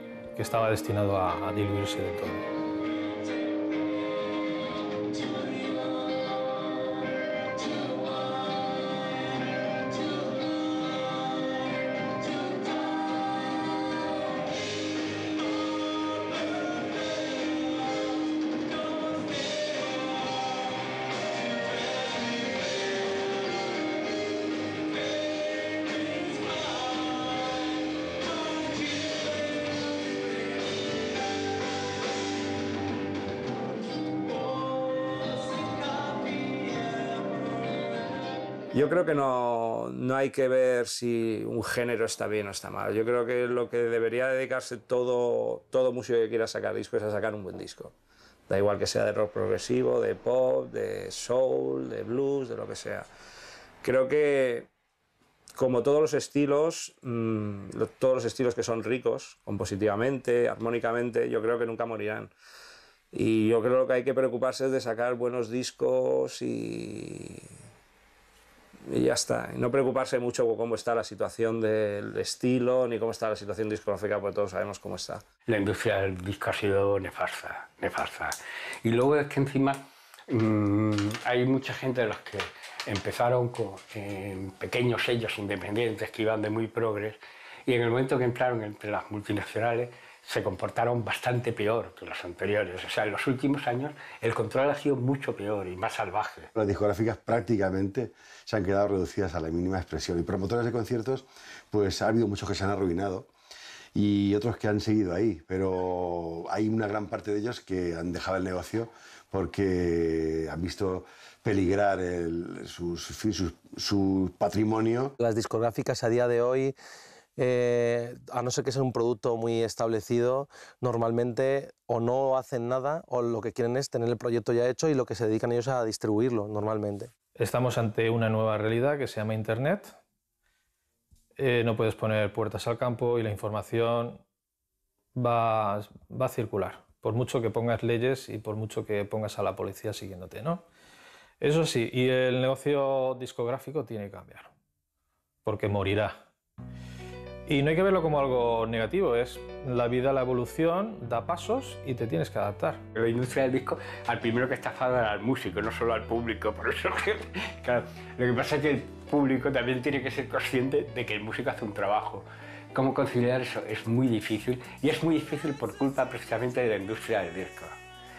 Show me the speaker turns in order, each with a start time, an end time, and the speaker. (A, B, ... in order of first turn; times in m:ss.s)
0:00.4-0:02.5 A
0:38.7-0:47.9 B
0:48.5-0:53.0 B
0:53.8-0:54.7 B
0:55.5-1:02.3 B
1:03.1-1:07.4 B
1:08.9-1:15.2 B
1:15.5-1:36.5 C
1:36.5-1:43.3 D
1:43.9-1:55.1 D
1:55.2-1:56.7 E
1:57.4-2:07.1 E
2:07.4-2:10.0 A
2:11.4-2:14.2 A
2:15.1-2:20.6 A
2:21.4-2:24.5 A
2:25.4-2:26.2 A
2:27.5-2:32.8 A
2:32.9-2:47.8 C